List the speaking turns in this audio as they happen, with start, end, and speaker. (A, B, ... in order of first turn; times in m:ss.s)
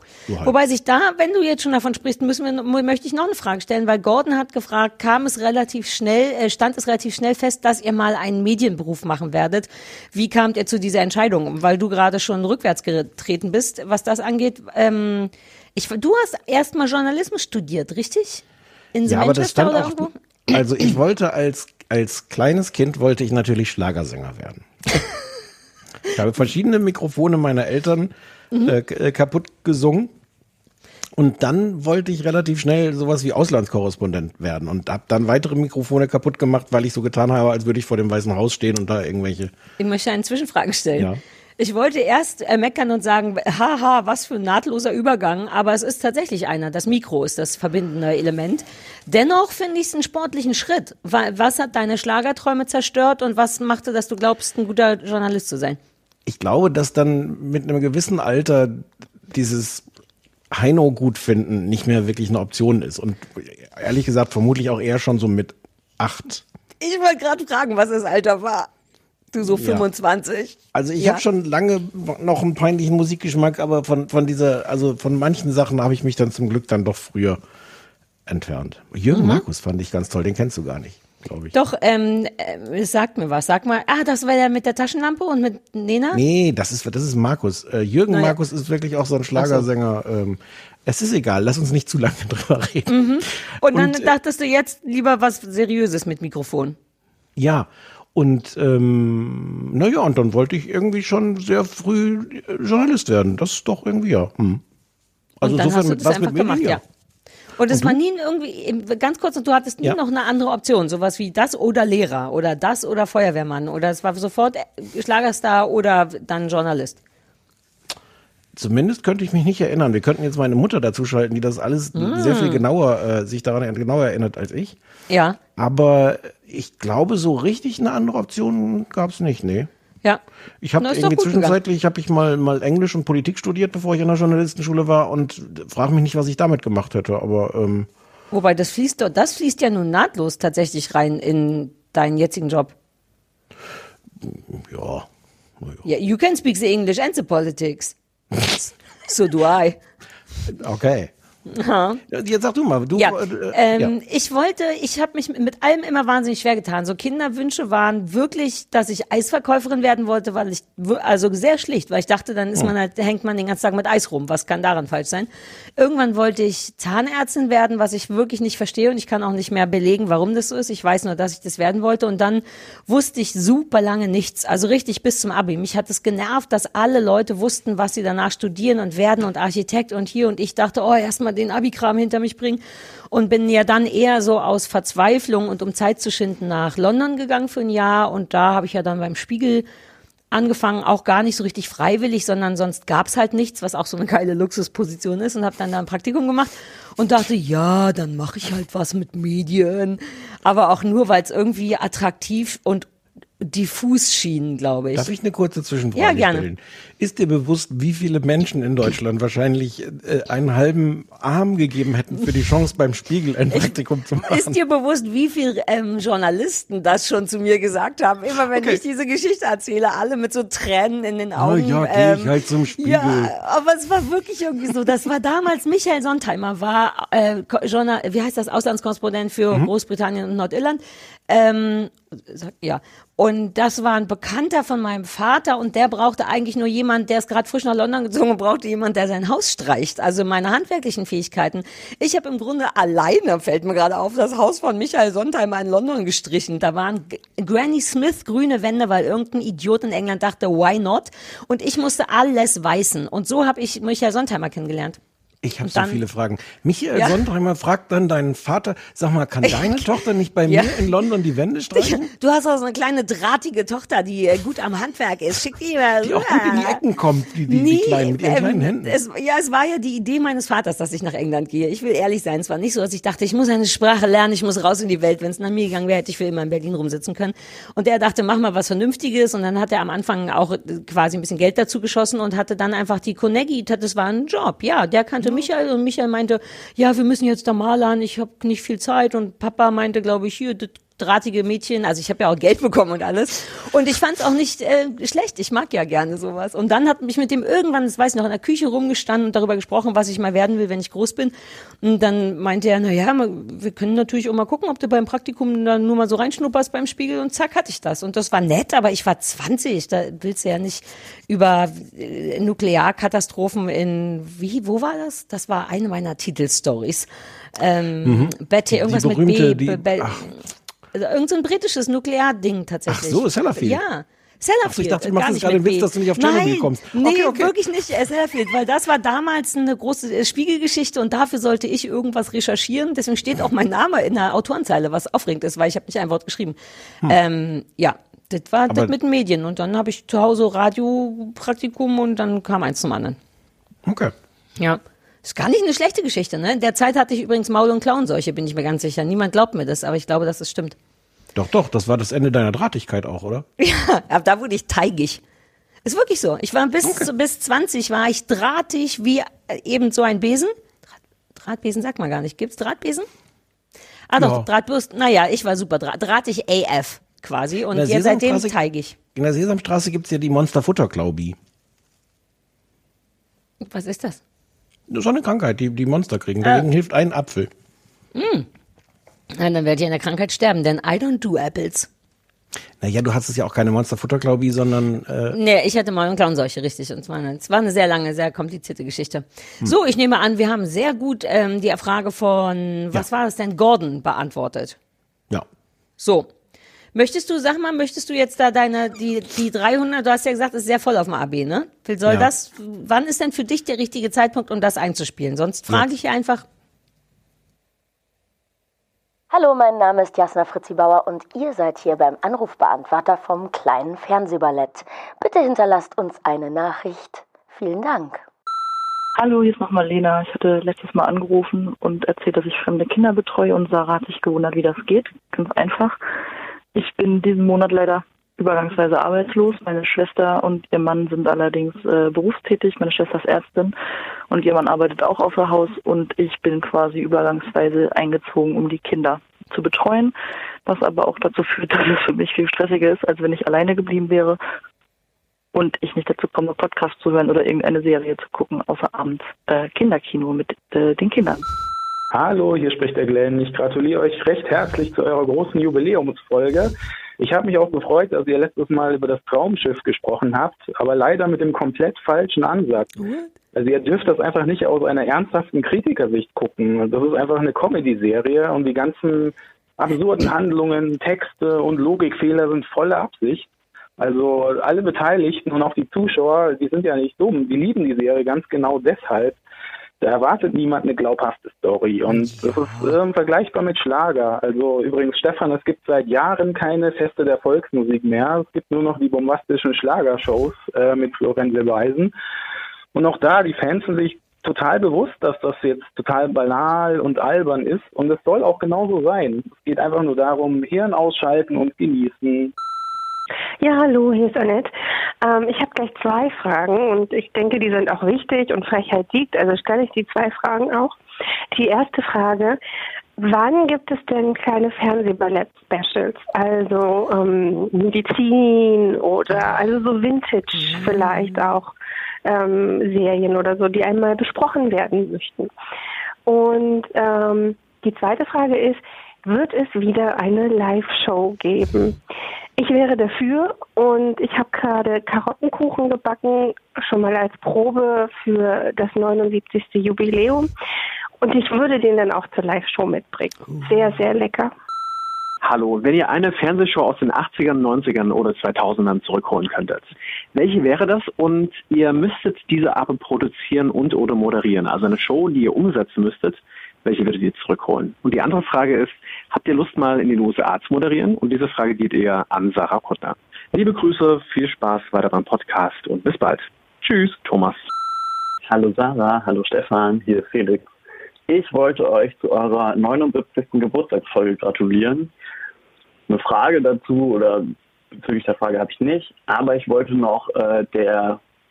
0:00.3-0:00.5 A
0:00.4-0:18.4 B
0:18.9-0:20.1 B
0:19.0-0:24.7 A
0:26.1-0:30.1 A
0:31.1-0:39.5 A
0:39.8-0:55.8 B
0:56.2-0:59.8 A
1:00.5-1:06.4 A
1:06.8-1:08.7 B
1:09.3-1:11.2 B
1:09.5-1:09.8 A
1:10.7-1:17.4 A
1:18.3-1:21.5 A
1:19.1-1:19.4 B
1:21.5-1:26.2 B
1:26.1-1:34.1 A
1:28.1-1:28.4 B
1:29.4-1:29.6 B
1:32.9-1:36.8 B
1:37.4-1:44.6 A
1:45.4-1:46.8 A
1:45.4-1:46.8 B
1:47.6-1:57.0 B
1:47.7-1:48.0 A
1:58.6-2:04.8 A
2:01.9-2:02.6 B
2:05.1-2:05.4 B
2:05.6-2:09.7 A
2:10.6-2:17.9 A
2:10.8-2:11.6 B
2:18.3-2:22.7 B
2:24.2-2:25.1 A
2:25.8-2:29.8 B
2:30.5-2:31.1 A
2:31.5-2:32.0 B
2:32.1-2:33.9 A
2:33.0-3:09.6 B
3:10.3-3:22.9 B
3:23.4-3:25.1 B
3:25.0-3:34.6 A
3:25.9-3:26.4 B
3:34.2-4:15.0 B
3:38.5-3:38.8 A
3:41.4-3:43.3 A
4:15.4-4:22.1 A
4:15.6-4:16.0 B
4:19.4-4:19.9 B
4:20.5-4:20.9 B
4:21.7-4:26.8 B
4:26.0-4:28.9 A
4:27.5-5:20.4 B
5:18.0-5:20.3 A
5:20.9-5:43.2 B
5:22.9-5:23.8 A
5:24.6-5:27.5 A
5:43.8-5:44.1 A
5:44.6-5:50.8 B
5:51.3-5:53.4 A
5:53.6-5:55.2 B
5:55.8-6:00.5 B
6:01.4-6:03.1 B
6:04.1-6:09.0 B
6:04.2-6:04.5 A
6:07.7-6:08.5 A
6:09.1-6:11.4 A
6:13.6-6:14.2 B
6:14.9-6:17.5 A
6:18.1-6:18.5 B
6:19.4-6:21.9 B
6:22.8-6:25.4 A
6:25.3-6:34.8 B
6:36.0-6:36.3 B
6:36.9-6:46.4 B
6:49.3-6:58.2 C
6:59.2-7:06.0 D
7:06.7-7:13.7 D
7:14.3-7:20.1 D
7:20.6-7:24.4 D
7:25.5-7:31.4 D
7:32.1-7:43.0 E
7:43.0-7:43.3 B
7:43.5-7:53.5 E
7:54.0-7:59.4 E
8:00.0-8:12.1 E
8:12.9-8:22.5 E
8:23.6-8:24.7 F
8:25.2-8:31.0 F
8:31.5-8:32.6 F
8:33.2-8:41.7 F
8:40.7-8:41.0 B
8:42.2-8:45.5 F
8:46.2-8:52.0 F
8:52.6-9:00.5 F
9:01.2-9:04.5 F
9:05.4-9:09.8 G
9:10.4-9:16.3 G
9:16.8-9:26.3 G
9:28.4-9:30.7 H
9:31.3-9:35.1 H
9:36.1-9:41.2 H